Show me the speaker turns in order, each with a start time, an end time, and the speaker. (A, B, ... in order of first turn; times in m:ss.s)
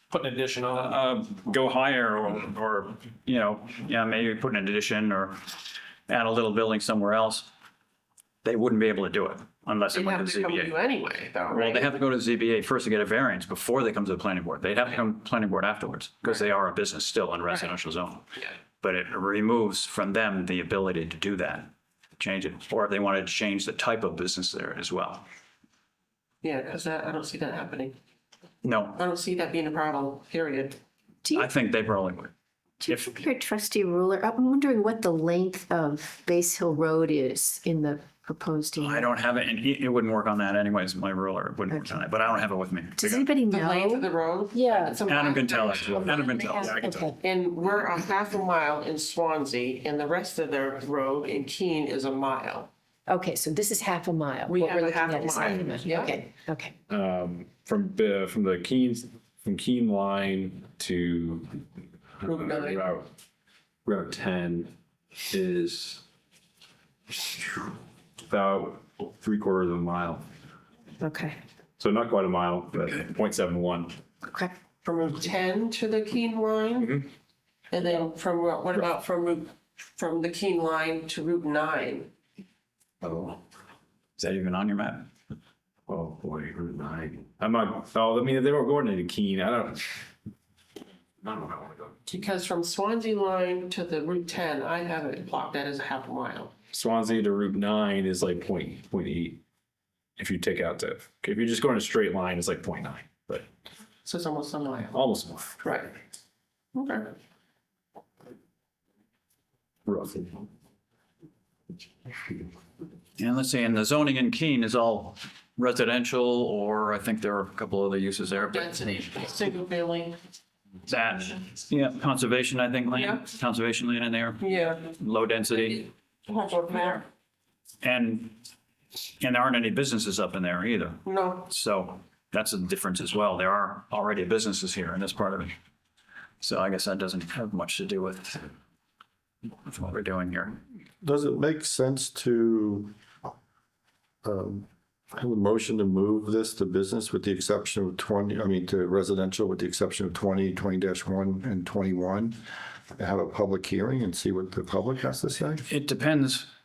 0:00.6-0:07.5 A
0:08.4-0:10.7 A
0:09.9-0:12.0 B
0:11.5-0:18.2 A
0:18.8-0:25.2 A
0:26.4-0:28.0 B
0:28.6-0:29.0 A
0:29.0-0:30.8 B
0:31.3-0:32.3 A
0:32.8-0:39.1 C
0:32.9-0:33.1 A
0:38.8-0:43.3 A
0:43.0-0:45.0 C
0:43.5-0:46.4 B
0:45.0-0:46.9 A
0:46.1-0:47.2 C
0:46.6-0:47.0 D
0:47.2-0:52.7 B
0:53.1-0:56.7 C
0:54.5-0:56.2 B
0:56.9-1:01.6 D
1:02.2-1:03.1 D
1:02.2-1:02.8 B
1:03.8-1:04.7 D
1:05.3-1:06.0 D
1:07.1-1:07.7 D
1:08.3-1:10.2 D
1:11.0-1:11.4 C
1:11.8-1:14.0 D
1:14.8-1:17.0 B
1:16.8-1:17.0 D
1:17.7-1:22.1 B
1:23.0-1:23.4 D
1:24.2-1:25.1 A
1:25.9-1:30.0 D
1:31.2-1:32.0 D
1:32.0-1:36.5 B
1:36.7-1:39.4 D
1:40.2-1:43.4 D
1:44.0-1:45.0 B
1:44.9-1:45.6 D
1:45.6-1:45.9 B
1:46.7-1:47.1 B
1:49.8-1:50.4 D
1:53.2-1:58.8 A
1:58.5-2:00.2 B
2:00.9-2:05.9 A
2:02.9-2:03.2 B
2:04.4-2:05.0 B
2:05.5-2:07.0 B
2:07.8-2:08.4 A
2:09.2-2:15.5 A
2:11.0-2:11.5 B
2:16.4-2:18.5 A
2:19.6-2:20.6 A
2:21.0-2:22.9 E
2:24.2-2:32.4 E
2:32.9-2:35.7 E
2:35.6-2:36.5 A